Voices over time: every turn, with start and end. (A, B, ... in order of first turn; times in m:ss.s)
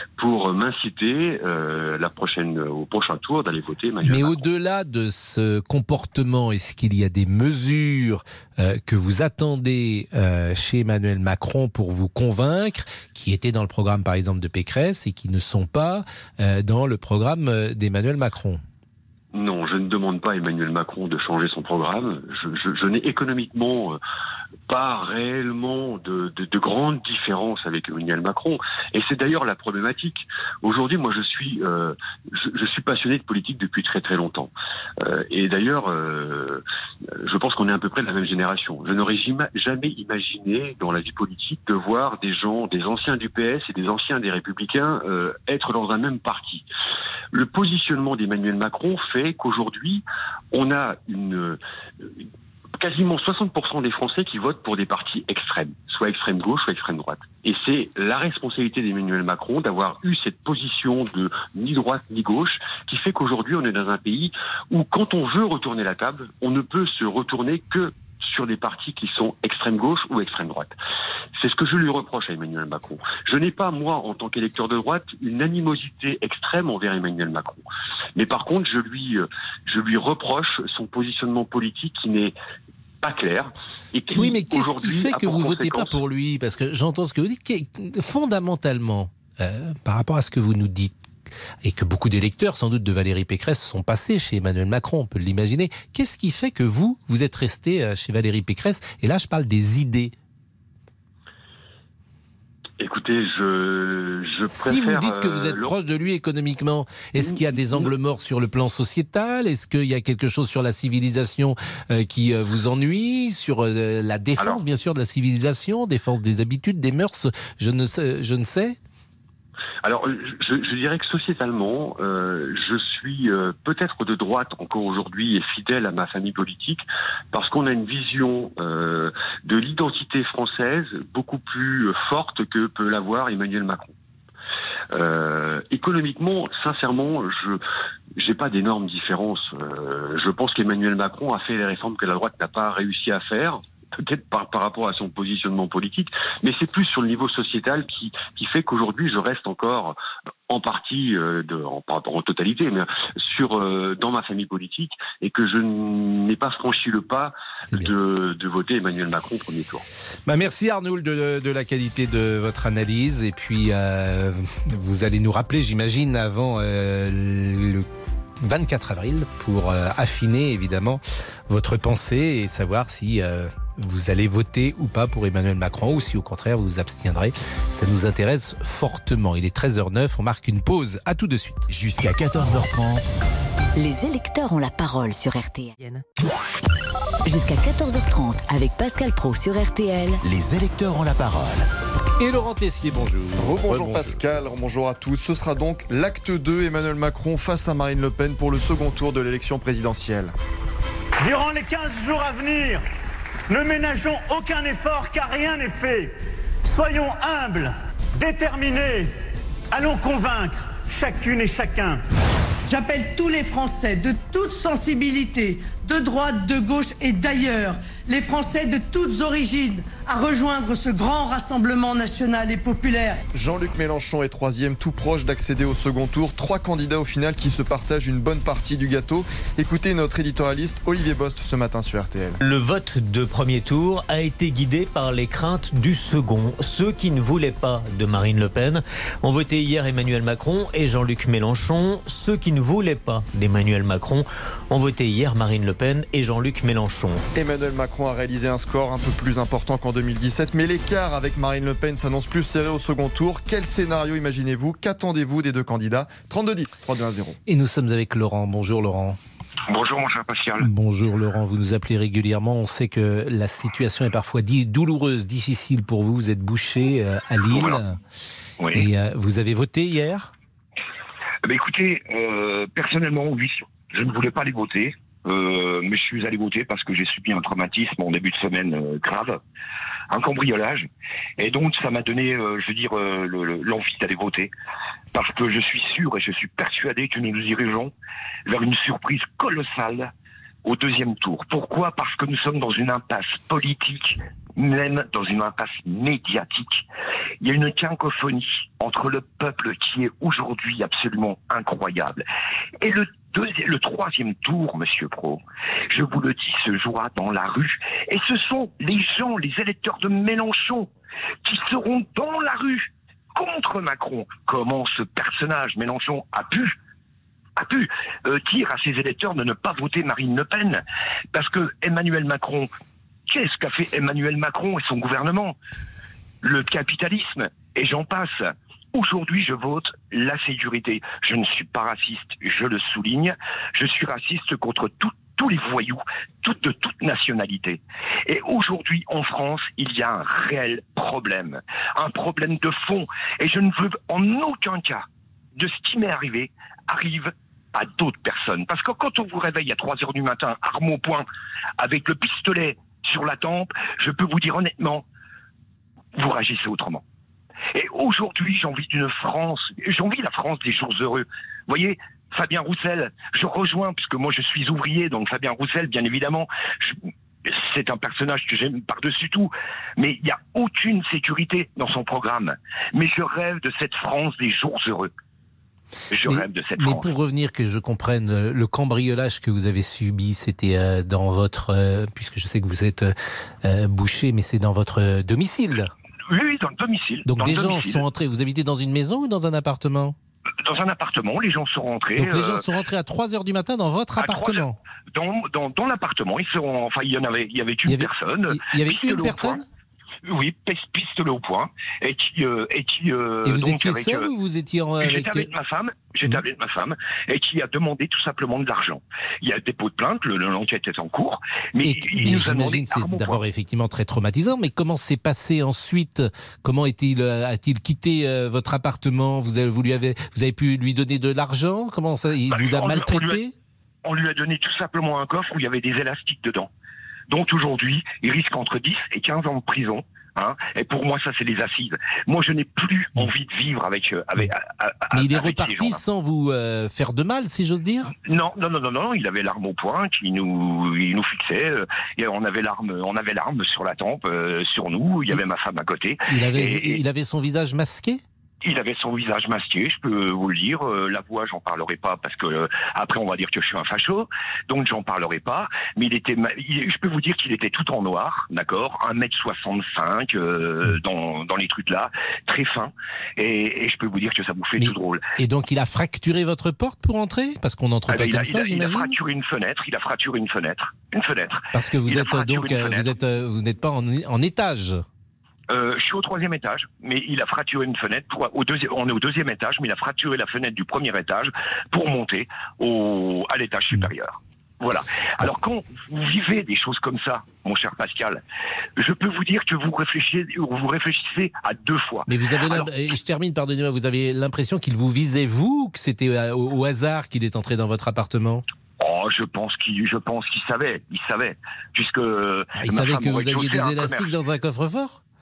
0:00.2-0:04.4 A
0:04.0-0:18.6 B
0:19.3-0:24.0 A
0:24.7-0:36.6 A
0:37.2-0:46.6 A
0:47.3-0:52.2 A
0:52.8-1:10.7 A
1:11.4-1:17.6 A
1:18.2-1:22.3 A
1:23.0-1:26.0 A
1:24.1-1:30.9 B
1:31.6-1:40.1 B
1:42.8-1:45.7 A
1:44.5-1:58.8 B
1:47.2-1:47.9 A
1:59.8-2:13.9 A
2:14.9-2:17.6 A
2:18.2-2:30.0 A
2:30.5-2:39.8 A
2:40.3-2:47.8 B
2:48.4-3:01.6 B
3:01.7-3:03.0 C
3:03.8-3:05.8 D
3:07.2-3:10.2 D
3:10.2-3:11.6 C
3:12.2-3:14.1 B
3:13.4-3:20.3 E
3:21.2-3:22.8 F
3:23.5-3:26.1 F
3:26.6-3:29.1 F
3:29.7-3:32.0 F
3:32.7-3:43.2 G
3:43.3-3:52.4 E
3:52.4-4:07.2 H
4:07.3-4:17.4 E
4:17.5-4:19.2 B
4:19.7-4:20.7 I
4:20.6-4:28.0 B
4:27.5-4:27.8 I
4:28.6-4:28.8 I
4:28.7-4:30.3 B
4:31.4-4:39.4 I
4:40.1-4:40.9 I
4:41.4-4:44.5 I
4:45.1-4:47.9 I
4:48.5-4:50.1 I
4:50.6-4:56.8 I
4:57.4-5:02.2 I
5:02.8-5:10.9 I
5:11.4-5:16.7 I
5:17.6-5:22.7 I
5:23.3-5:25.6 I
5:26.4-5:51.2 I
5:51.8-5:55.0 I
5:56.1-5:57.0 I
5:57.7-6:15.1 I
6:16.1-6:17.1 I
6:16.3-6:25.9 B
6:26.3-6:28.0 I
6:27.2-6:30.2 B
6:30.6-6:32.6 I
6:32.2-6:34.8 B
6:34.2-6:39.6 I
6:37.8-6:39.6 B
6:40.2-6:44.3 I
6:43.5-6:45.5 B
6:45.0-6:53.4 I
6:51.8-7:03.5 B
7:02.5-7:03.4 I
7:04.0-7:06.7 I
7:07.3-7:16.0 I
7:15.1-7:18.1 B
7:18.2-7:27.0 I
7:26.3-7:28.2 B
7:28.6-7:45.2 I
7:44.8-7:49.2 B
7:48.1-7:53.1 I
7:51.7-7:55.0 B
7:55.7-8:08.4 I
8:09.0-8:12.9 I
8:12.3-8:18.6 B
8:19.0-8:24.3 I
8:22.8-8:25.2 B